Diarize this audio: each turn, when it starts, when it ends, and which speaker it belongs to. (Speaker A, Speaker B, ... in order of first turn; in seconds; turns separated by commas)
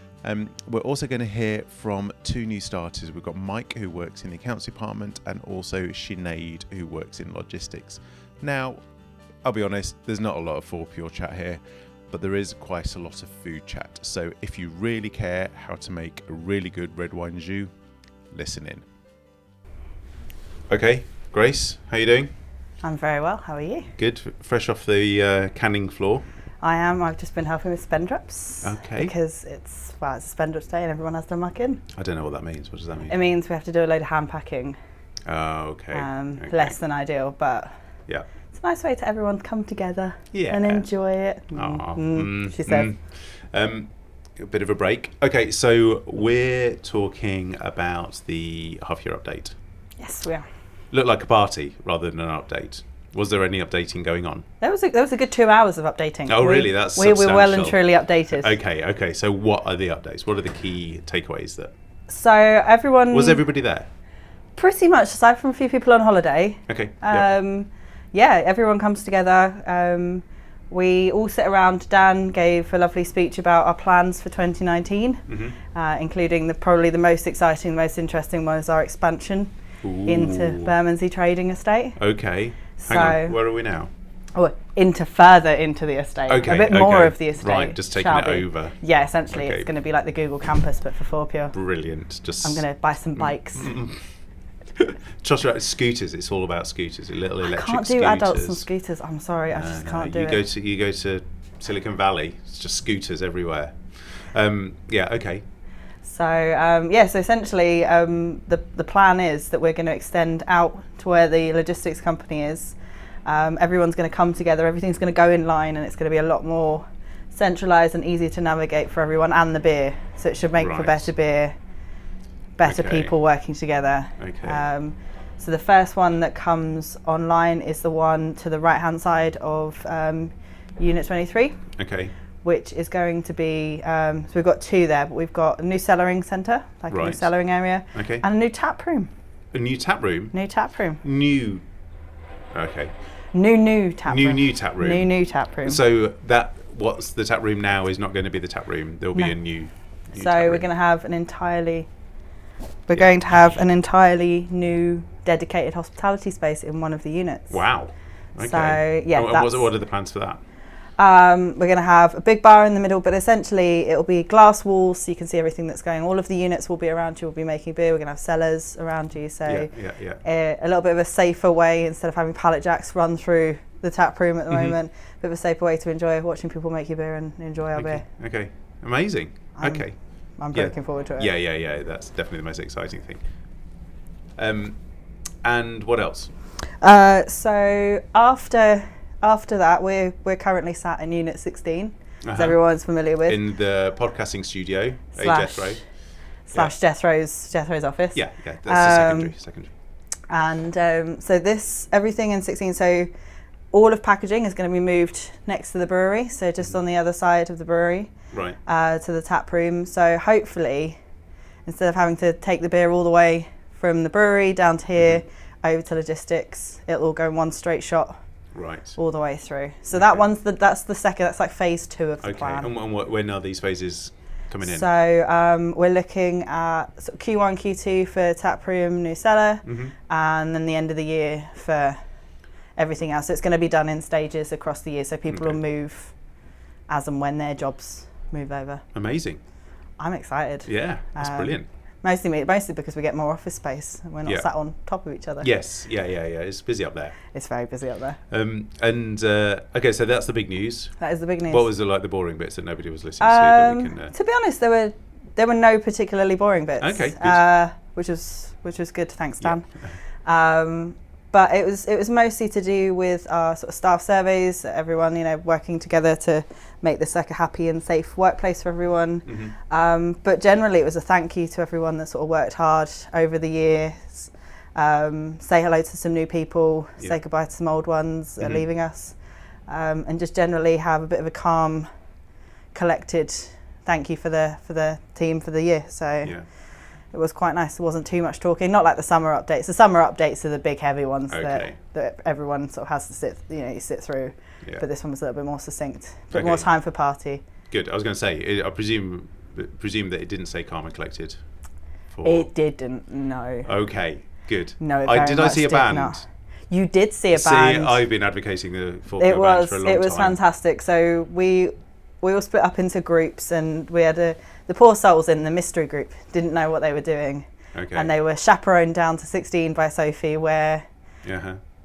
Speaker A: 0.2-8.8, Speaker A: 9.4-17.7, Speaker A: 18.3-18.8, Speaker A: 20.7-22.3, Speaker B: 22.8-23.9, Speaker A: 24.0-26.2, Speaker B: 26.6-31.8, Speaker A: 28.6-29.1, Speaker A: 31.9-33.2, Speaker B: 33.1-34.8, Speaker A: 35.3-36.7, Speaker B: 35.9-37.7, Speaker B: 38.5-42.9, Speaker A: 40.3-40.9, Speaker A: 41.5-49.5, Speaker B: 50.0-50.4, Speaker A: 50.9-54.4, Speaker B: 54.6-58.5, Speaker A: 56.3-61.7, Speaker B: 62.1-63.4, Speaker A: 63.1-63.9, Speaker B: 64.5-79.5, Speaker A: 66.7-67.3, Speaker A: 75.3-75.6, Speaker A: 79.8-80.7, Speaker B: 80.0-82.0, Speaker A: 82.0-83.9, Speaker B: 82.8-83.4, Speaker B: 84.3-91.5, Speaker A: 86.3-89.7, Speaker A: 91.5-92.6, Speaker B: 92.4-93.7, Speaker A: 93.2-94.0, Speaker A: 94.8-98.6, Speaker B: 97.4-100.4, Speaker A: 99.5-105.4, Speaker B: 106.0-121.5, Speaker A: 120.6-121.1, Speaker B: 122.6-131.6, Speaker A: 122.6-123.1, Speaker A: 124.2-124.7, Speaker A: 131.8-132.1, Speaker B: 132.4-139.1, Speaker A: 136.9-137.3, Speaker A: 137.9-138.2, Speaker A: 139.5-140.3, Speaker B: 140.3-141.0, Speaker A: 141.0-141.6, Speaker A: 142.5-142.9, Speaker B: 143.3-145.8, Speaker A: 144.1-145.1, Speaker A: 145.6-150.7, Speaker B: 150.1-151.9, Speaker B: 152.9-157.6, Speaker A: 157.5-160.4, Speaker B: 158.4-159.7, Speaker B: 161.0-178.0, Speaker A: 169.4-170.2, Speaker A: 174.5-174.8, Speaker A: 177.7-183.2, Speaker B: 179.6-181.3, Speaker A: 184.4-184.8, Speaker A: 185.4-186.3, Speaker B: 186.8-193.4, Speaker A: 192.2-192.6, Speaker A: 193.2-195.8, Speaker B: 195.2-195.8, Speaker B: 196.5-199.3, Speaker A: 198.1-199.7, Speaker B: 200.3-203.1, Speaker B: 203.7-208.1, Speaker A: 208.3-208.6, Speaker B: 208.6-211.0, Speaker B: 211.6-218.2, Speaker A: 215.0-215.2, Speaker A: 218.5-219.0, Speaker B: 218.9-222.7, Speaker A: 219.9-220.2, Speaker A: 222.2-224.9, Speaker B: 224.6-232.0, Speaker A: 229.6-229.9, Speaker B: 232.8-236.1, Speaker A: 235.3-235.6, Speaker B: 236.9-238.8, Speaker A: 238.9-239.4, Speaker B: 240.0-245.5, Speaker A: 240.7-241.7, Speaker A: 245.4-247.2, Speaker B: 247.3-248.2, Speaker A: 248.3-254.1, Speaker B: 251.0-251.7, Speaker B: 253.2-259.7, Speaker A: 256.8-257.4, Speaker A: 259.4-259.9, Speaker B: 260.2-279.1, Speaker A: 269.2-269.5, Speaker A: 278.4-278.6, Speaker B: 279.7-281.9, Speaker B: 282.7-286.4, Speaker B: 287.1-297.4, Speaker A: 291.3-291.8, Speaker A: 296.3-296.7, Speaker A: 297.7-301.4, Speaker A: 302.1-302.5, Speaker B: 302.2-303.7, Speaker A: 303.6-306.2, Speaker B: 304.8-308.0, Speaker A: 307.3-310.4, Speaker B: 309.2-320.9, Speaker A: 317.7-318.1, Speaker A: 321.2-321.6